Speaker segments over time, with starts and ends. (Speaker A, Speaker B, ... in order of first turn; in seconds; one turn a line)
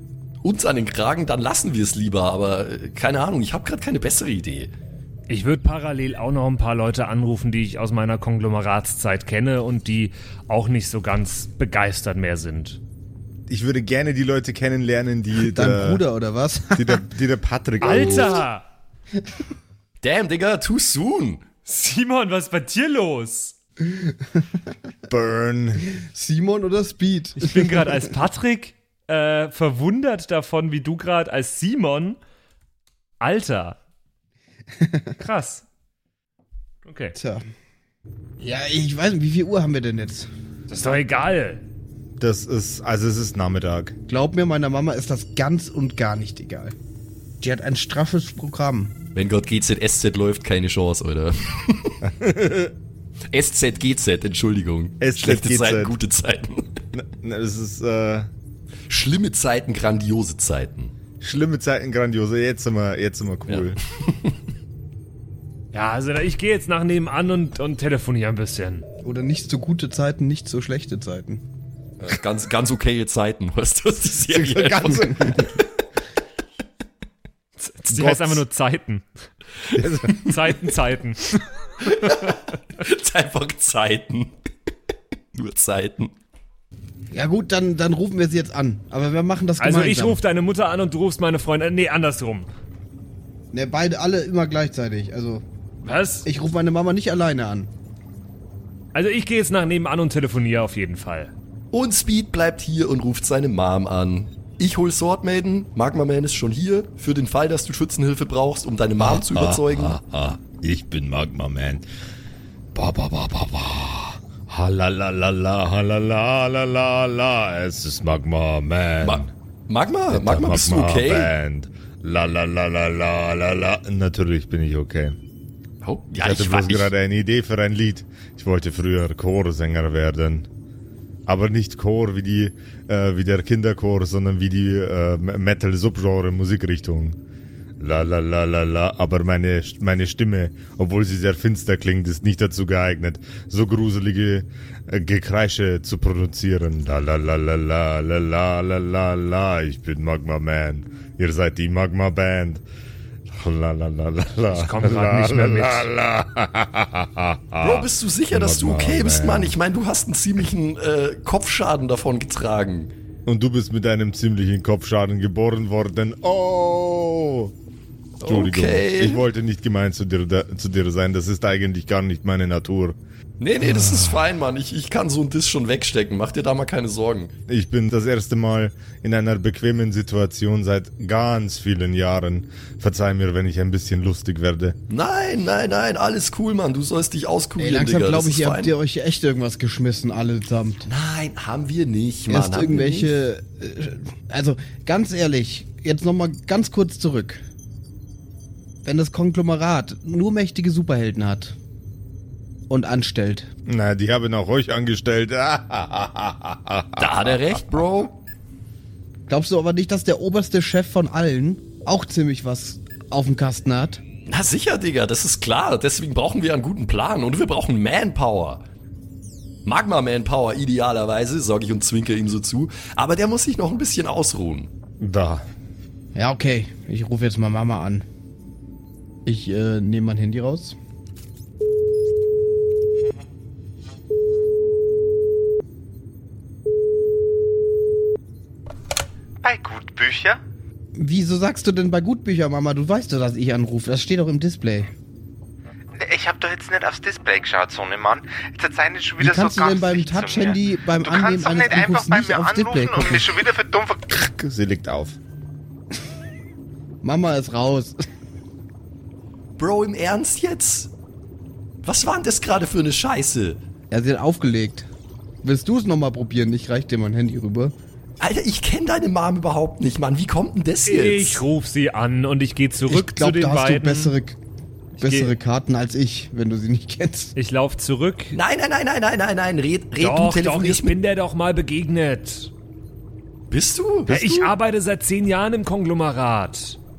Speaker A: 0.4-4.7
Speaker B: 5.3-12.8
Speaker C: 13.5-16.0
Speaker D: 15.4-17.1
Speaker C: 16.7-18.4
Speaker B: 17.8-18.6
Speaker A: 20.0-21.4
Speaker B: 21.6-23.6
Speaker D: 23.9-24.1
Speaker C: 25.1-25.9
Speaker D: 25.9-28.1
Speaker B: 27.4-32.2
Speaker B: 33.2-33.8
Speaker D: 34.8-35.1
Speaker B: 35.2-35.6
Speaker B: 36.8-37.1
Speaker D: 37.1-37.5
Speaker D: 38.4-40.3
Speaker B: 40.7-41.6
Speaker C: 42.2-44.0
Speaker D: 44.1-46.8
Speaker D: 47.4-48.9
Speaker A: 49.1-52.0
Speaker C: 52.0-52.7
Speaker A: 53.3-56.8
Speaker C: 55.0-55.9
Speaker C: 56.9-58.3
Speaker A: 58.9-60.9
Speaker C: 61.2-63.8
Speaker A: 63.5-64.3
Speaker B: 65.7-68.8
Speaker D: 69.0-71.4
Speaker A: 72.0-75.6
Speaker C: 74.3-75.5
Speaker D: 74.9-75.4
Speaker B: 77.6-79.1
Speaker C: 77.9-78.4
Speaker C: 79.8-80.4
Speaker B: 80.2-82.3
Speaker A: 81.8-84.3
Speaker A: 85.3-86.1
Speaker D: 87.1-90.2
Speaker B: 89.6-92.5
Speaker D: 93.5-95.4
Speaker B: 95.8-96.2
Speaker D: 96.2-97.7
Speaker B: 98.9-101.3
Speaker A: 101.7-110.0
Speaker C: 109.0-111.8
Speaker C: 112.7-119.3
Speaker A: 119.0-121.3
Speaker C: 120.1-125.2
Speaker A: 125.8-126.9
Speaker C: 126.2-130.5
Speaker C: 131.3-137.2
Speaker C: 137.8-152.6
Speaker C: 153.3-159.5
Speaker B: 154.5-155.9
Speaker A: 157.6-162.9
Speaker C: 163.2-167.5
Speaker A: 168.2-169.2
Speaker C: 168.2-173.0
Speaker A: 173.4-177.3
Speaker C: 173.6-174.2
Speaker C: 177.5-184.8
Speaker A: 184.9-188.7
Speaker D: 187.6-190.8
Speaker A: 190.8-193.1
Speaker D: 192.3-197.4
Speaker D: 198.8-201.6
Speaker D: 202.7-203.5
Speaker C: 203.7-207.6
Speaker A: 207.0-208.2
Speaker D: 209.3-214.0
Speaker A: 214.2-218.6
Speaker A: 219.6-224.7
Speaker C: 225.0-225.4
Speaker D: 226.1-228.1
Speaker D: 229.2-230.8
Speaker E: 239.4-240.4
Speaker D: 240.9-244.9
Speaker E: 246.0-254.2
Speaker D: 249.2-253.2
Speaker C: 254.2-255.2
Speaker D: 257.0-258.0
Speaker A: 259.6-260.9
Speaker A: 261.8-263.6
Speaker D: 263.9-264.9
Speaker D: 265.4-267.7
Speaker A: 268.2-271.4
Speaker B: 270.9-274.1
Speaker D: 272.9-274.4
Speaker B: 274.9-275.3
Speaker D: 274.9-277.3
Speaker B: 277.4-278.4
Speaker A: 278.3-280.9
Speaker B: 279.9-282.5
Speaker A: 283.5-284.1
Speaker C: 284.1-284.5
Speaker B: 284.1-286.8